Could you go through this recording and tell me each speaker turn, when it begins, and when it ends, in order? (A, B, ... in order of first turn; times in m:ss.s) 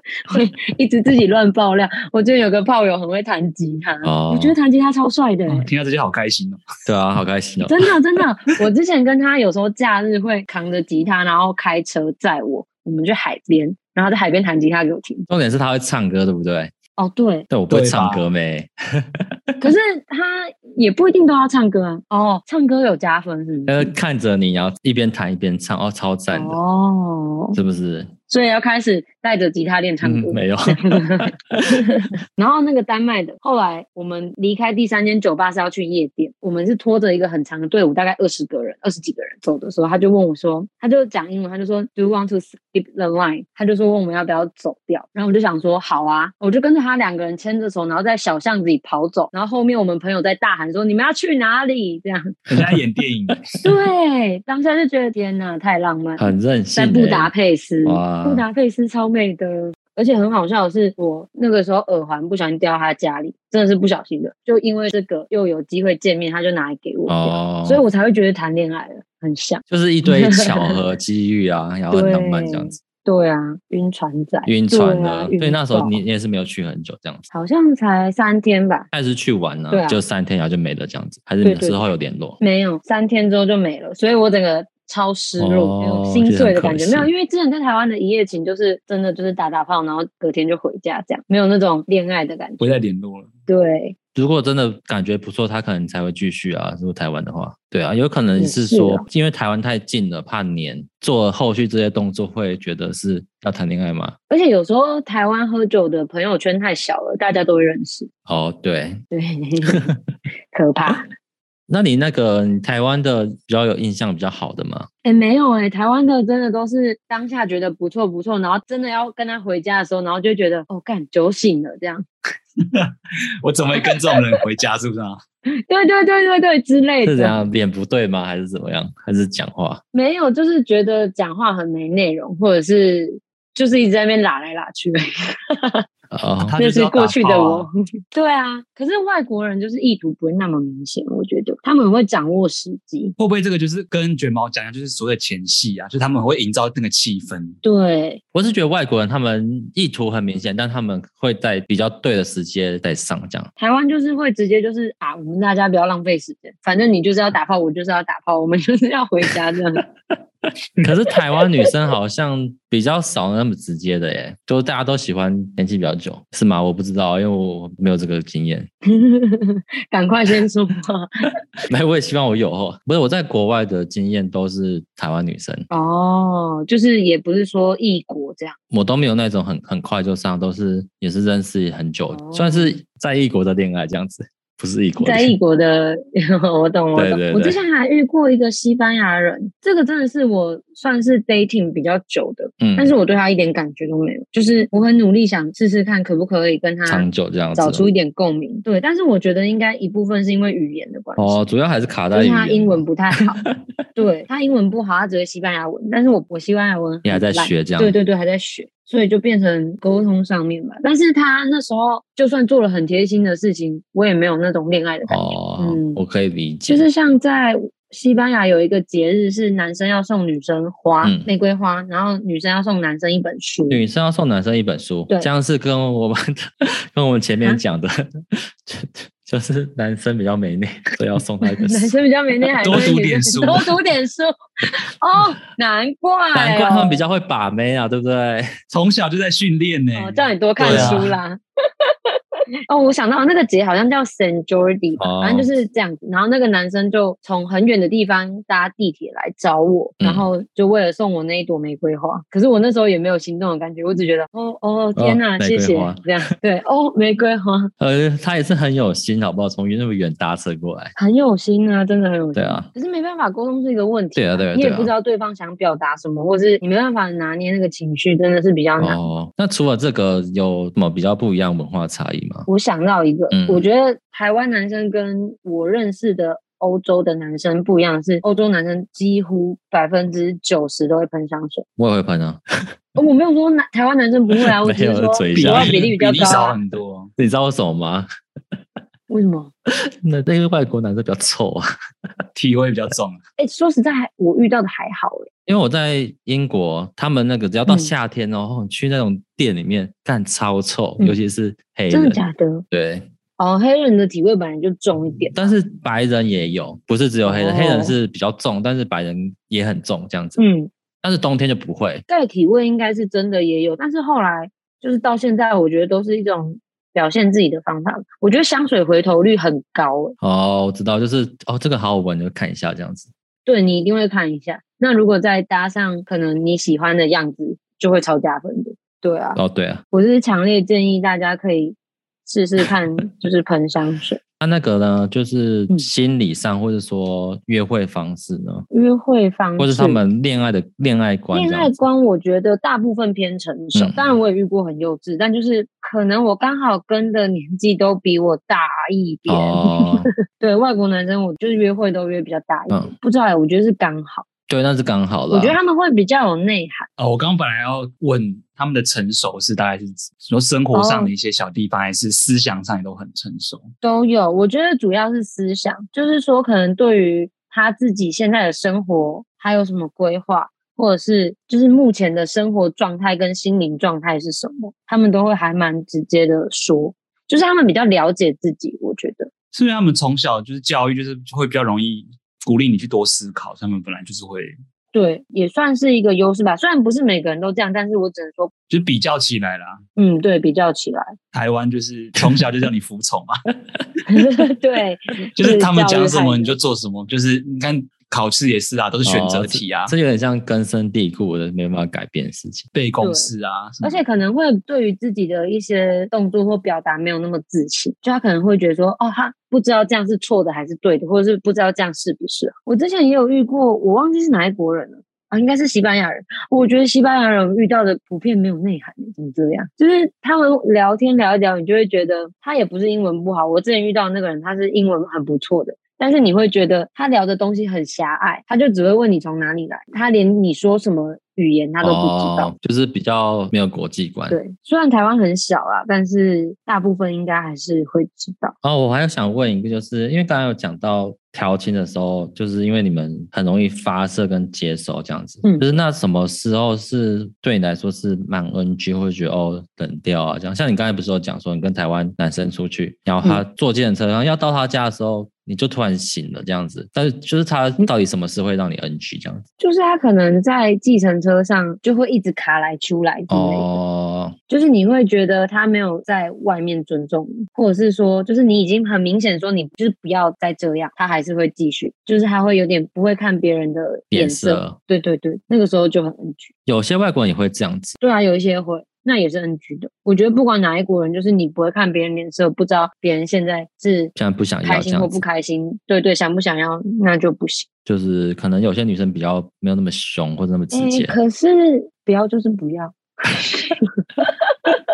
0:00.3-0:05.7 A
0:04.0-0:04.6 B
0:05.5-0:06.6 C
0:06.9-0:07.8 B
0:07.6-0:15.3 A
0:15.3-0:16.7 B
0:17.0-0:17.5 A
0:17.5-0:19.7 B
0:17.7-0:18.3 C
0:19.6-0:23.9 A
0:23.7-0:26.6 B
0:26.3-0:27.6 A
0:27.5-0:28.1 B
0:28.3-0:52.4 A
0:30.0-0:31.0 B
0:31.5-0:31.8 B
0:52.5-0:53.4 C
0:53.6-1:10.8 A
0:56.2-0:57.3 B
0:57.8-0:58.4 B
1:07.1-1:07.8 B
1:09.7-1:12.8 B
1:11.9-1:16.0 A
1:14.4-1:17.2 B
1:17.3-1:18.9 A
1:18.9-1:22.4 B
1:19.7-1:20.0 A
1:21.4-1:21.8 A
1:22.4-1:32.7 A
1:25.4-1:27.1 B
1:32.6-1:33.3 C
1:33.5-1:34.0 A
1:34.1-1:44.2 B
1:38.4-1:39.0 A
1:44.3-1:48.1 A
1:48.3-1:49.0 B
1:49.1-1:49.9 A
1:50.5-1:51.0 A
1:51.7-1:54.9 B
1:55.0-2:02.0 A
2:02.6-2:02.9 C
2:03.4-2:05.2 C
2:05.7-2:07.4 A
2:07.0-2:09.8 B
2:09.9-2:15.8 A
2:16.1-2:16.5 B
2:16.4-2:17.7 C
2:16.6-2:23.1 A
2:23.2-2:27.6 C
2:27.6-2:28.2 A
2:28.3-2:33.5 B
2:33.6-2:39.8 A
2:40.8-2:48.7 B
2:48.9-2:51.1 A
2:51.7-2:55.7 B
2:55.7-2:58.6 A
2:58.7-3:05.4 B
3:02.1-3:02.8 A
3:05.0-3:21.4 A
3:06.9-3:07.6 B
3:12.6-3:12.9 B
3:16.8-3:17.8 B
3:21.2-3:22.9 B
3:22.1-3:23.4 A
3:24.0-3:36.0 A
3:27.0-3:28.0 B
3:35.1-3:36.8 B
3:36.7-3:43.8 A
3:41.0-3:41.3 B
3:43.7-3:48.0 B
3:48.6-3:51.9 B
3:51.6-3:54.3 A
3:52.6-3:53.7 C
3:55.0-3:57.0 A
3:56.3-3:58.5 B
3:58.7-4:01.1 C
3:59.9-4:01.4 A
4:00.6-4:01.0 B
4:02.7-4:17.7 A
4:05.0-4:05.5 B
4:10.0-4:10.3 B
4:15.0-4:16.0 B
4:17.8-4:20.9 B
4:21.0-4:29.0 A
4:22.3-4:22.7 B
4:24.2-4:24.9 B
4:28.8-4:32.5 B
4:32.5-4:41.6 A
4:33.3-4:33.6 B
4:41.8-4:42.4 B
4:43.0-4:46.6 A
4:44.6-4:46.4 B
4:45.3-4:47.1 C
4:47.2-4:48.1 B
4:49.1-4:49.5 A
4:50.0-4:51.6 B
4:52.3-4:53.2 C
4:53.4-4:55.3 A
4:55.5-5:02.2 B
4:57.7-4:57.9 A
5:01.9-5:02.6 A
5:02.7-5:03.1 B
5:03.4-5:05.5 A
5:05.3-5:10.4 B
5:07.2-5:08.0 A
5:10.4-5:10.7 A
5:11.0-5:12.0 B
5:12.1-5:20.2 A
5:20.2-5:23.1 B
5:23.4-5:29.4 A
5:29.4-5:29.8 B
5:29.9-5:34.2 A
5:34.4-5:38.6 B
5:38.7-5:40.0 A
5:39.6-5:41.7 B
5:41.3-5:54.2 A
5:43.7-5:44.1 B
5:49.3-5:50.1 B
5:54.5-5:55.6 B
5:55.3-5:56.9 A
5:57.0-6:03.7 C
6:00.7-6:01.1 A
6:03.8-6:19.3 A
6:19.5-6:24.5 C
6:24.9-6:28.5 A
6:28.7-6:29.8 C
6:30.0-6:31.1 A
6:31.3-6:33.4 C
6:34.1-6:36.6 A
6:35.4-6:39.9 C
6:39.0-6:42.6 B
6:42.7-6:44.0 C
6:43.0-6:43.3 A
6:43.8-7:12.5 A
7:11.8-7:14.4 B
7:14.3-7:18.5 A
7:18.6-7:39.4 B
7:39.6-7:43.8 A
7:43.3-7:44.3 B
7:44.5-7:56.5 A
7:54.1-7:54.8 B
7:56.6-7:58.0 B
7:58.0-8:04.1 A
8:04.2-8:05.2 B
8:04.6-8:07.6 A
8:07.8-8:11.2 B
8:10.7-8:14.8 A